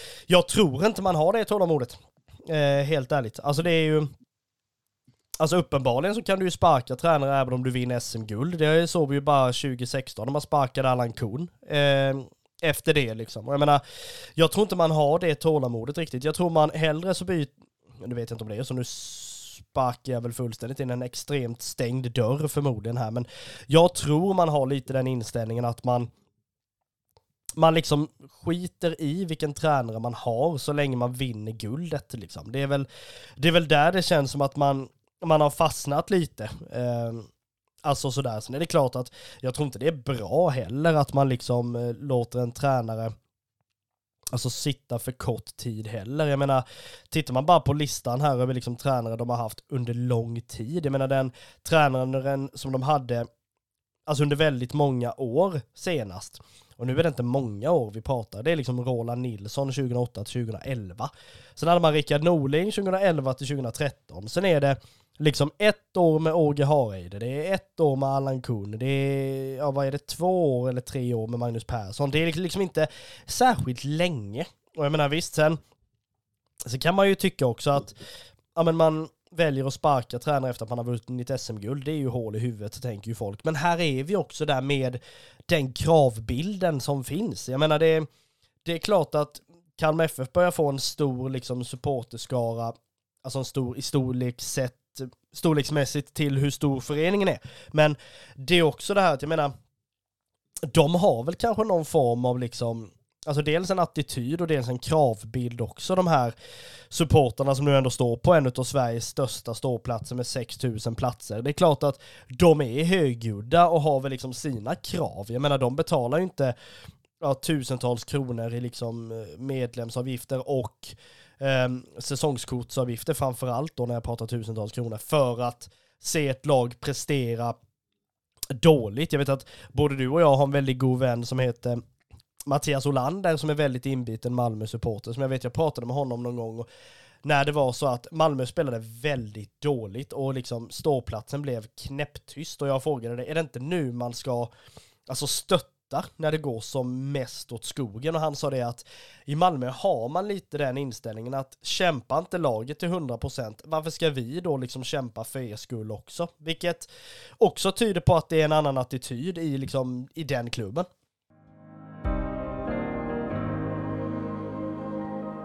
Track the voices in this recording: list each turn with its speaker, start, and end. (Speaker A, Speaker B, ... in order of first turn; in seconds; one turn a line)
Speaker A: 0.3-4.1
Speaker A: 5.4-13.8
Speaker A: 14.4-26.1
Speaker A: 27.6-32.9
Speaker A: 33.4-37.3
Speaker A: 37.8-43.1
Speaker A: 44.3-53.3
Speaker A: 54.1-75.6
Speaker A: 76.7-78.0
Speaker A: 78.5-88.1
Speaker A: 88.6-99.5
Speaker A: 100.7-106.3
Speaker A: 106.9-116.5
Speaker A: 117.2-127.5
Speaker A: 128.5-131.8
Speaker A: 132.5-136.7
Speaker A: 137.2-144.5
Speaker A: 145.1-156.9
Speaker A: 157.4-160.9